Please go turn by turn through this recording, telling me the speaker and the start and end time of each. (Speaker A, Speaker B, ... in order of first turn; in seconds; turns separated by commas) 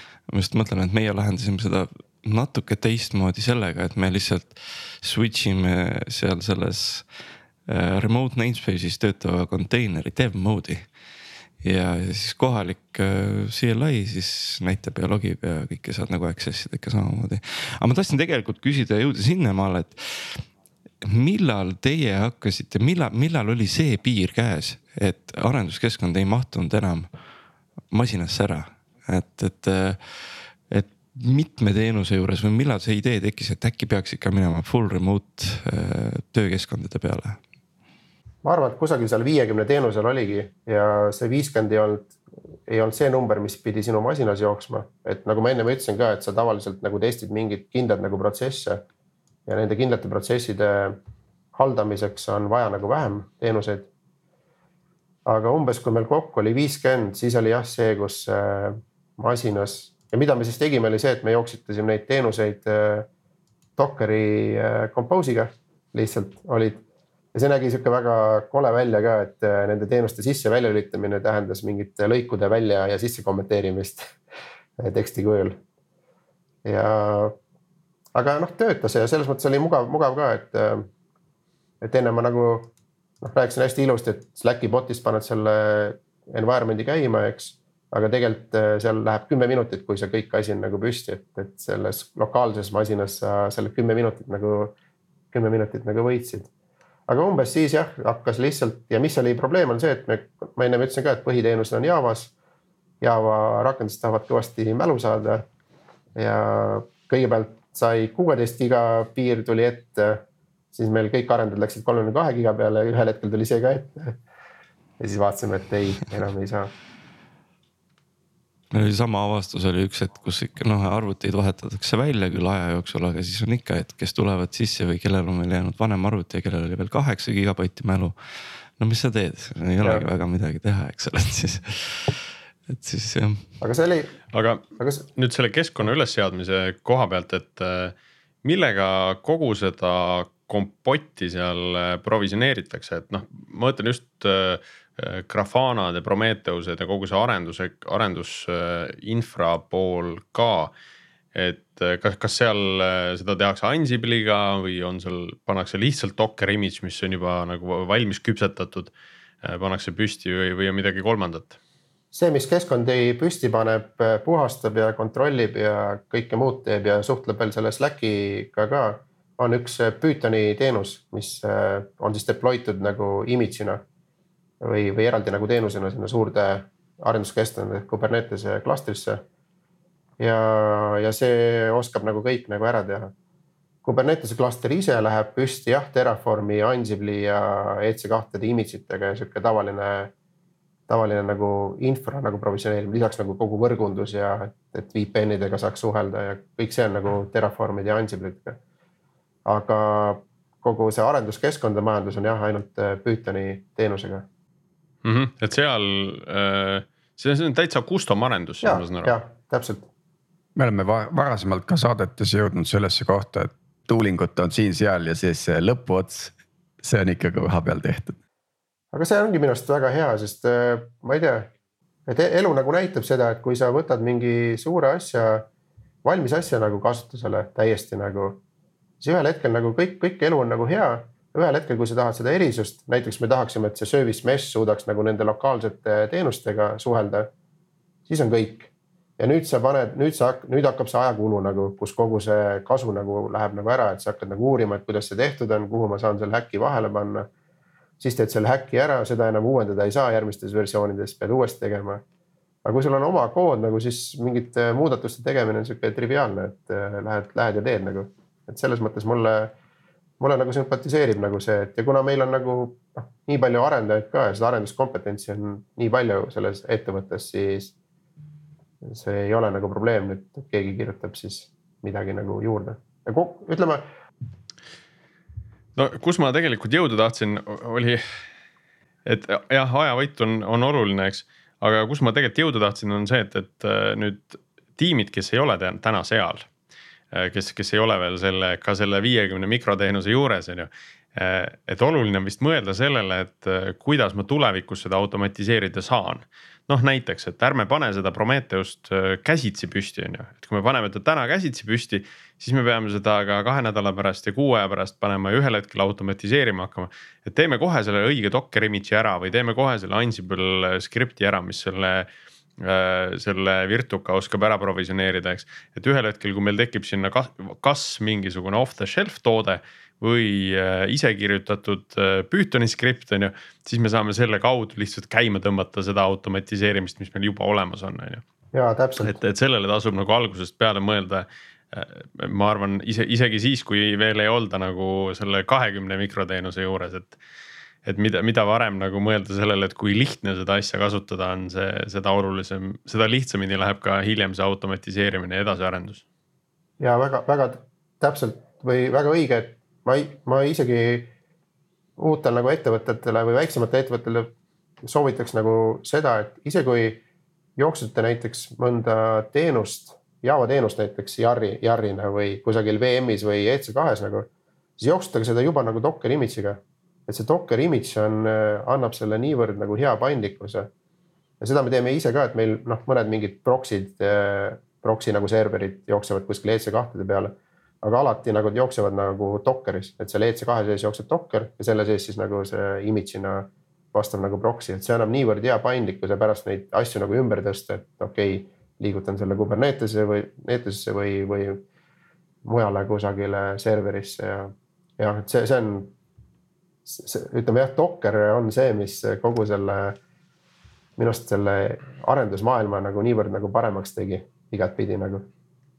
Speaker A: 0.3-7.1, Speaker A: 7.7-10.9, Speaker A: 11.6-20.4, Speaker A: 21.0-27.1, Speaker A: 27.9-37.4, Speaker B: 38.4-48.8, Speaker B: 49.5-51.0, Speaker B: 51.5-53.9, Speaker B: 55.3-63.1, Speaker B: 63.8-66.8, Speaker B: 67.3-74.2, Speaker B: 74.8-75.6, Speaker B: 76.6-77.3, Speaker B: 78.1-80.9, Speaker B: 81.8-94.7, Speaker B: 95.3-96.5, Speaker B: 97.1-102.3, Speaker B: 103.0-105.4, Speaker B: 106.2-114.2, Speaker B: 115.0-116.7, Speaker A: 118.7-128.2, Speaker A: 128.8-133.4, Speaker B: 133.6-134.2, Speaker C: 134.3-150.7, Speaker B: 134.8-135.1, Speaker C: 151.3-158.9, Speaker C: 159.4-161.6, Speaker B: 162.1-173.8, Speaker B: 174.6-179.2, Speaker B: 180.2-183.1, Speaker B: 183.8-190.1, Speaker B: 190.9-198.6, Speaker B: 199.5-204.2, Speaker C: 205.0-209.2, Speaker B: 208.6-209.9, Speaker D: 210.6-218.2, Speaker B: 218.9-221.5, Speaker B: 222.1-225.5, Speaker B: 226.0-228.4, Speaker B: 229.0-237.3, Speaker B: 238.1-247.3, Speaker B: 248.0-252.0, Speaker B: 252.6-259.5, Speaker B: 260.2-267.7, Speaker B: 268.8-273.8, Speaker C: 275.8-278.0, Speaker C: 279.0-286.5, Speaker C: 287.1-312.1, Speaker C: 312.6-328.2, Speaker B: 328.5-329.2, Speaker C: 329.0-337.2, Speaker C: 337.8-346.0, Speaker B: 346.8-351.1, Speaker B: 352.0-354.3, Speaker B: 354.8-357.0, Speaker B: 357.6-364.3, Speaker B: 364.8-370.7, Speaker B: 371.4-391.6, Speaker B: 392.4-395.9, Speaker B: 396.9-400.0, Speaker B: 401.0-405.2